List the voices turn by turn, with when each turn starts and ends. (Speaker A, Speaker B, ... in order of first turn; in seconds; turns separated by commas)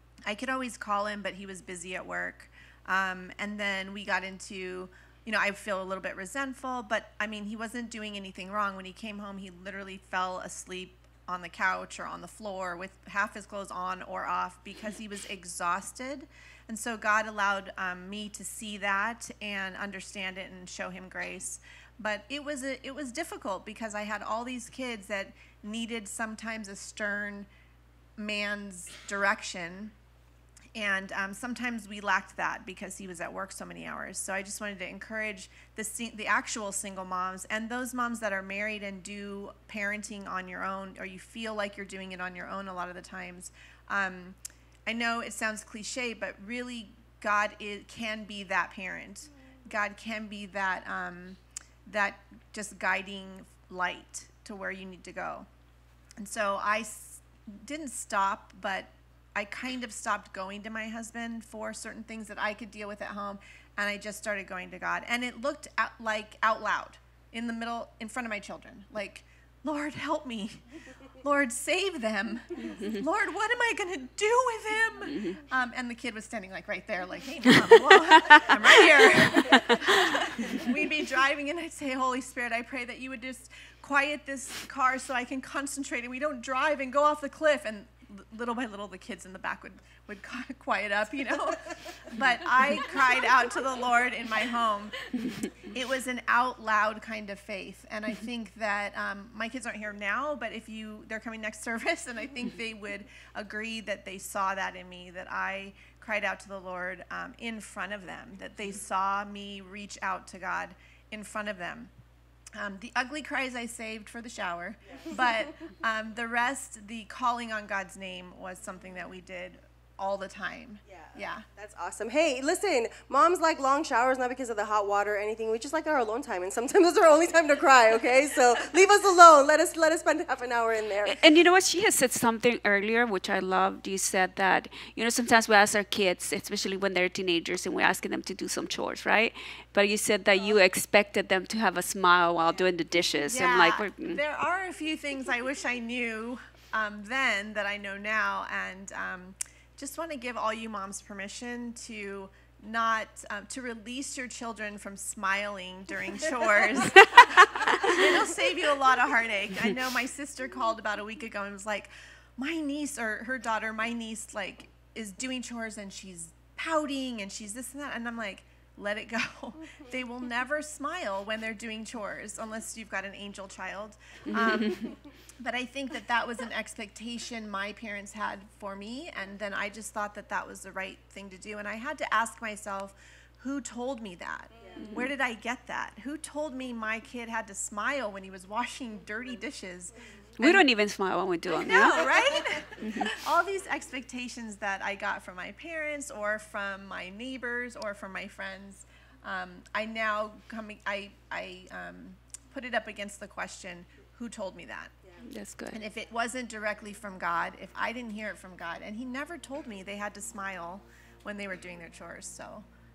Speaker A: 0.3-27.5, Speaker A: 28.2-29.9, Speaker A: 30.8-55.5, Speaker A: 56.2-111.9, Speaker B: 72.7-73.0, Speaker B: 75.1-75.4, Speaker B: 77.5-78.6, Speaker B: 79.5-80.2, Speaker A: 112.6-121.5, Speaker C: 114.9-115.2, Speaker C: 120.9-131.2, Speaker B: 131.0-144.2, Speaker A: 143.2-190.7, Speaker B: 157.2-158.0, Speaker B: 174.3-174.9, Speaker C: 184.6-184.9, Speaker B: 184.8-185.1, Speaker B: 190.4-193.2, Speaker A: 191.5-204.9, Speaker B: 205.2-205.8, Speaker A: 205.7-212.7